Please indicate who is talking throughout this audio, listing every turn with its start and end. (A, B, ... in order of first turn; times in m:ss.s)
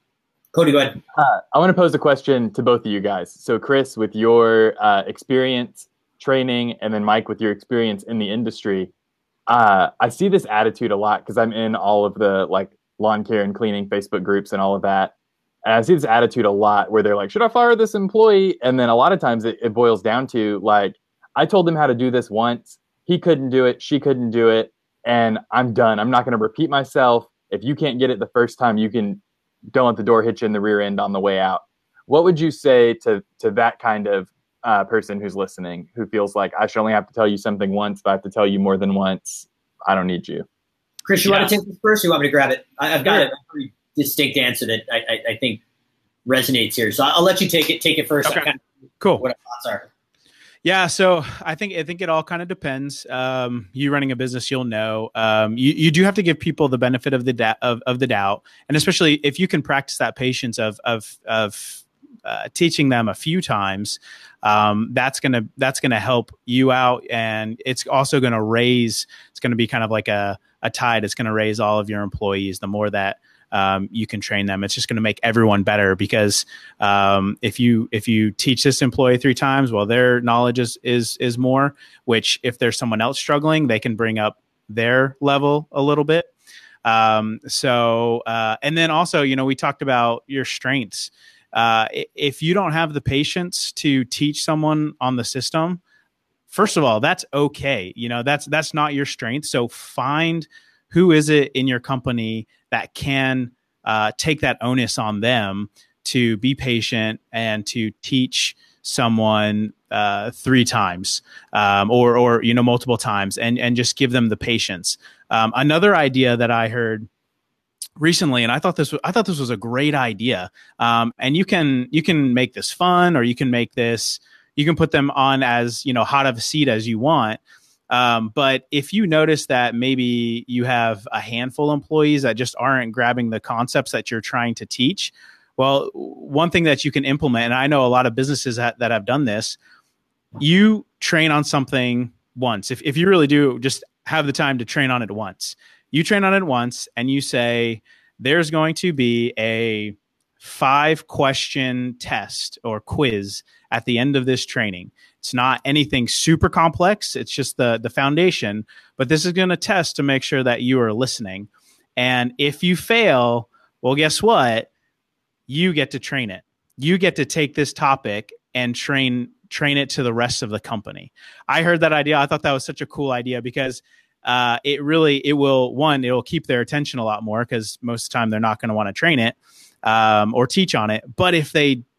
0:00.5-0:01.0 A
0:01.1-0:08.9 B
0:09.5-0:15.1 B
0:15.6-0:29.2 B
0:29.7-0:40.4 B
0:41.0-0:45.6 A
0:41.2-0:41.5 C
0:46.2-0:48.6 A
0:49.0-0:49.2 C
0:49.2-0:49.8 A
0:50.6-1:26.3 C
1:26.8-1:35.8 C
1:36.5-1:57.1 C
1:58.0-2:19.6 C
2:20.4-2:44.7 C
2:45.5-3:01.8 C